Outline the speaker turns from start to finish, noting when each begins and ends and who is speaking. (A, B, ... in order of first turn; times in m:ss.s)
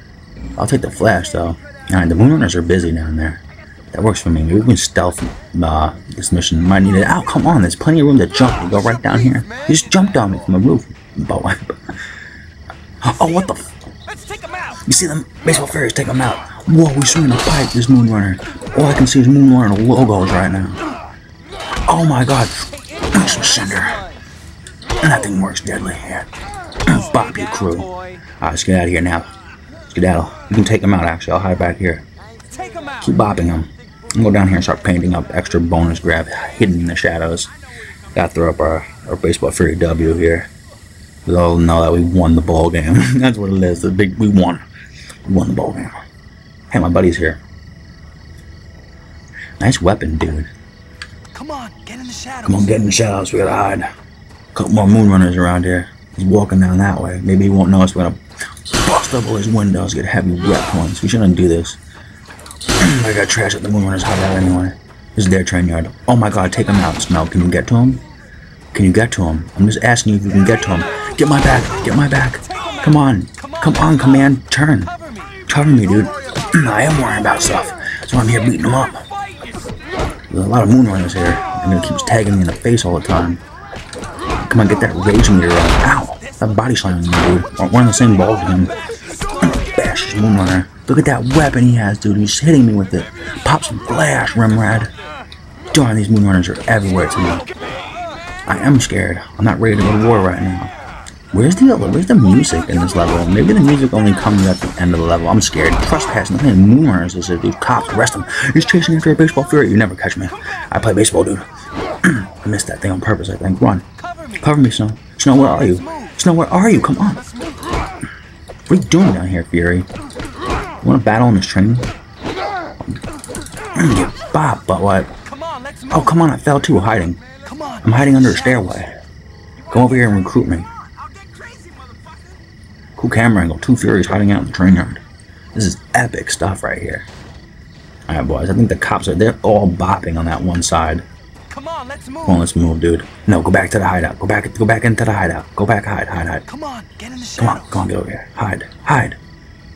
0:00.6-0:12.0 A
0:13.0-0:13.8 A
0:14.7-0:20.8 A
0:21.8-0:24.1 A
0:25.0-0:29.3 A
0:29.9-0:32.0 A
0:32.6-0:32.9 B
0:33.0-0:37.5 A
0:38.1-0:40.5 A
0:41.2-0:44.6 A
0:45.2-0:46.0 A
0:46.7-0:47.4 A
0:49.6-0:50.5 A
0:51.4-0:52.3 B
0:52.4-0:53.9 A
0:54.5-1:01.8 A
1:02.8-1:08.0 A
1:08.7-1:19.1 A
1:20.3-1:23.4 A
1:24.4-1:28.8 A
1:29.4-1:34.9 A
1:35.7-1:37.5 A
1:38.4-1:40.7 A
1:41.3-1:57.2 A
1:58.7-1:59.9 A
2:00.8-2:01.9 A
2:03.7-2:05.2 A
2:05.9-2:07.2 A
2:07.8-2:09.0 A
2:09.7-2:10.7 A
2:13.0-2:15.0 A
2:15.5-2:17.1 A
2:18.1-2:21.0 A
2:21.6-2:22.0 B
2:22.2-2:26.5 A
2:26.5-2:27.2 B
2:27.3-2:29.2 A